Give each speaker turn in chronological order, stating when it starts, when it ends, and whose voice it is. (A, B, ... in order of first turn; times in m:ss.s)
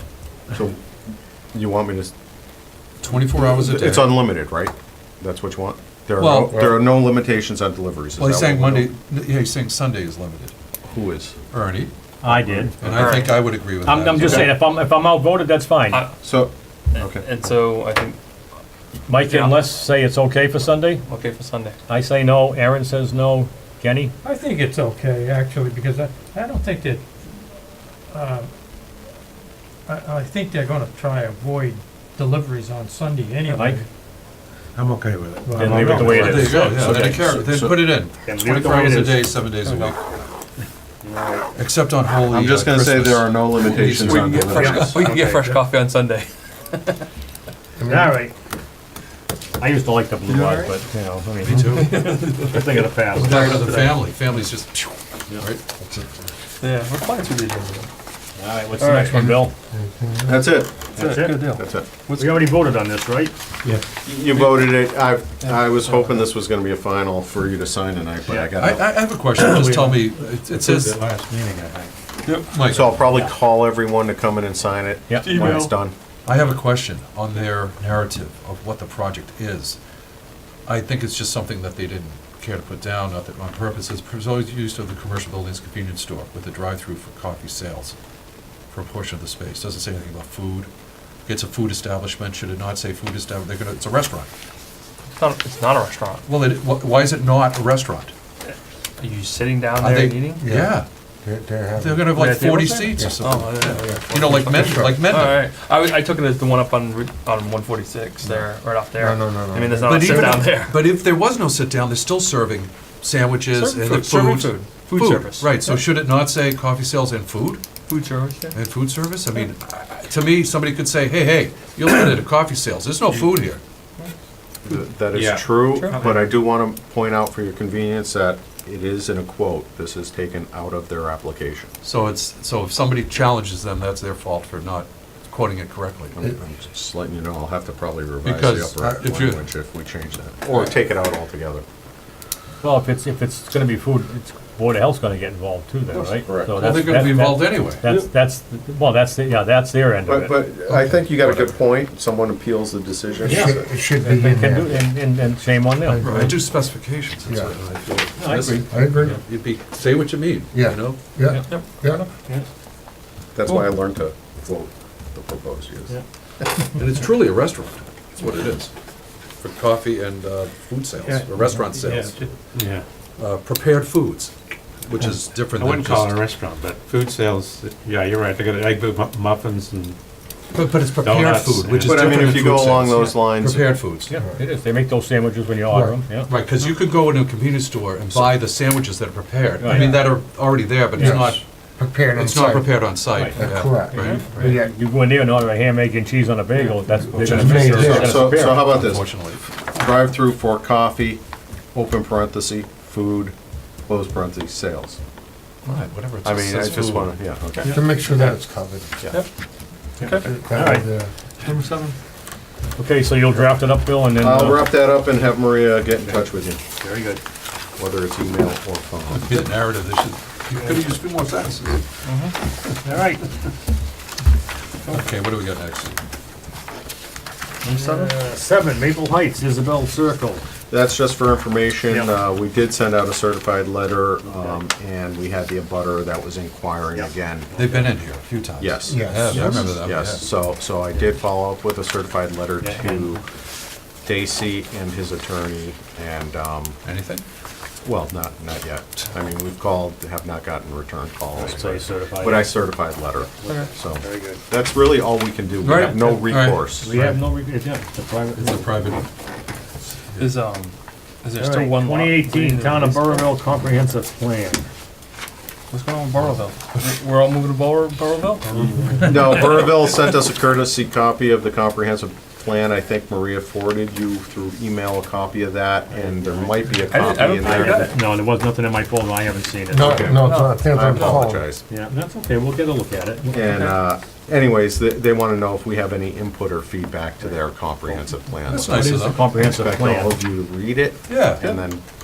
0:00.5-0:00.8 A
0:01.5-0:02.1 A
0:03.0-0:04.2 B
0:03.4-0:08.9 A
0:06.2-0:06.6 B
0:06.5-0:06.9 C
0:08.2-0:10.5 B
0:10.9-0:11.4 A
0:11.5-0:11.9 B
0:12.2-0:13.2 D
0:12.8-0:14.6 B
0:12.9-0:13.5 E
0:13.8-0:16.1 D
0:14.2-0:14.5 A
0:16.2-0:17.3 A
0:17.0-0:18.2 E
0:19.1-0:21.0 D
0:19.2-0:19.6 E
0:21.1-0:21.8 E
0:21.9-0:24.2 D
0:24.2-0:27.0 F
0:28.1-0:28.5 F
0:29.9-0:33.8 F
0:33.5-0:33.8 D
0:34.8-0:36.6 G
0:35.4-0:35.9 F
0:35.5-0:37.2 D
0:35.9-0:40.0 B
0:36.5-0:37.9 A
0:38.2-0:39.3 D
0:41.0-0:41.5 D
0:41.6-0:44.6 B
0:42.3-0:45.0 A
0:43.6-0:47.1 E
0:44.5-0:45.6 F
0:44.5-0:45.6 D
0:47.8-0:48.1 C
0:47.9-0:48.3 D
0:49.6-0:54.0 D
0:50.3-0:50.8 E
0:51.4-0:52.2 B
0:51.5-0:51.8 C
0:51.8-0:52.6 E
0:53.1-0:55.6 B
0:56.6-0:57.9 E
0:58.4-0:59.5 D
0:58.8-0:59.2 E
0:59.1-1:00.4 C
1:00.2-1:01.9 A
1:01.0-1:01.6 D
1:01.0-1:02.3 E
1:02.1-1:03.3 D
1:04.0-1:08.8 A
1:08.6-1:11.0 B
1:09.4-1:10.1 D
1:10.6-1:11.9 G
1:11.1-1:11.6 D
1:12.2-1:12.5 E
1:12.5-1:12.9 B
1:12.7-1:15.9 A
1:15.1-1:15.7 D
1:15.2-1:15.7 E
1:16.2-1:19.8 B
1:20.7-1:28.0 B
1:28.7-1:30.7 B
1:31.3-1:34.3 B
1:35.2-1:36.3 E
1:36.3-1:38.1 B
1:39.0-1:40.4 E
1:39.8-1:40.9 B
1:40.4-1:42.2 C
1:41.8-1:45.5 B
1:42.1-1:43.1 D
1:42.9-1:45.0 C
1:43.2-1:50.8 E
1:49.0-1:50.5 C
1:49.8-1:57.6 B
1:53.5-1:55.6 E
1:57.9-1:58.6 E
1:58.5-2:03.6 B
2:04.6-2:11.7 A
2:05.2-2:06.2 G
2:11.8-2:16.3 B
2:16.2-2:21.6 A
2:18.2-2:19.5 B
2:22.6-2:30.4 D
2:25.9-2:26.6 A
2:26.6-2:27.8 B
2:30.1-2:33.7 A
2:33.2-2:34.8 C
2:33.3-2:36.1 D
2:35.8-2:36.5 C
2:36.0-2:41.0 B
2:37.2-2:37.5 C
2:38.2-2:39.1 D
2:38.4-2:39.2 C
2:40.5-2:42.1 C
2:42.0-2:42.5 D
2:43.4-2:45.9 A
2:46.8-2:48.7 B
2:49.4-2:52.2 B
2:51.8-2:52.8 G
2:53.2-2:54.3 B
2:54.8-2:56.3 B
2:55.5-3:00.0 G
3:00.5-3:04.1 B
3:00.9-3:02.1 G
3:01.8-3:03.8 A
3:04.1-3:06.3 D
3:05.7-3:06.0 C
3:06.3-3:11.4 B
3:09.6-3:10.0 D
3:09.7-3:10.1 C
3:10.9-3:12.8 C
3:12.1-3:14.5 B
3:13.2-3:18.8 D
3:13.4-3:14.7 C
3:17.1-3:17.4 G
3:17.2-3:19.5 B
3:17.2-3:18.3 C
3:17.8-3:19.1 A
3:19.7-3:21.2 A
3:21.7-3:23.4 A
3:23.9-3:25.0 A
3:25.6-3:27.2 B
3:26.2-3:27.8 A
3:27.7-3:29.1 C
3:30.0-3:30.9 D
3:30.0-3:30.3 E
3:30.1-3:31.1 C
3:31.5-3:31.8 D
3:31.5-3:31.9 G
3:32.8-3:34.7 D
3:34.2-3:36.6 A
3:36.8-3:37.2 D
3:37.8-3:39.3 A
3:39.1-3:41.8 B
3:42.1-3:42.3 E
3:42.8-3:43.3 D
3:44.9-3:45.9 B
3:47.6-3:50.4 D
3:47.7-3:48.1 E
3:50.7-3:57.6 A
3:54.3-3:54.6 D
3:56.9-3:57.9 D
3:57.6-4:00.2 B
3:58.6-4:03.2 A
3:58.8-3:59.6 C
4:02.6-4:03.1 D
4:04.0-4:06.8 A
4:06.8-4:07.2 B
4:07.8-4:16.9 A
4:11.3-4:12.7 D
4:13.4-4:14.4 D
4:15.6-4:16.1 E
4:16.1-4:17.2 B
4:16.8-4:19.0 D
4:18.4-4:19.1 B
4:20.1-4:20.4 B
4:20.2-4:23.3 E
4:21.4-4:24.7 D
4:25.7-4:29.1 E
4:29.0-4:37.9 A
4:35.9-4:40.5 D
4:36.9-4:37.9 E
4:39.7-4:41.5 C
4:39.8-4:41.6 A
4:40.3-4:40.6 E
4:41.7-4:43.5 D
4:43.3-4:51.8 A
4:48.5-4:49.3 B
4:48.5-4:50.2 D
4:51.1-4:51.4 B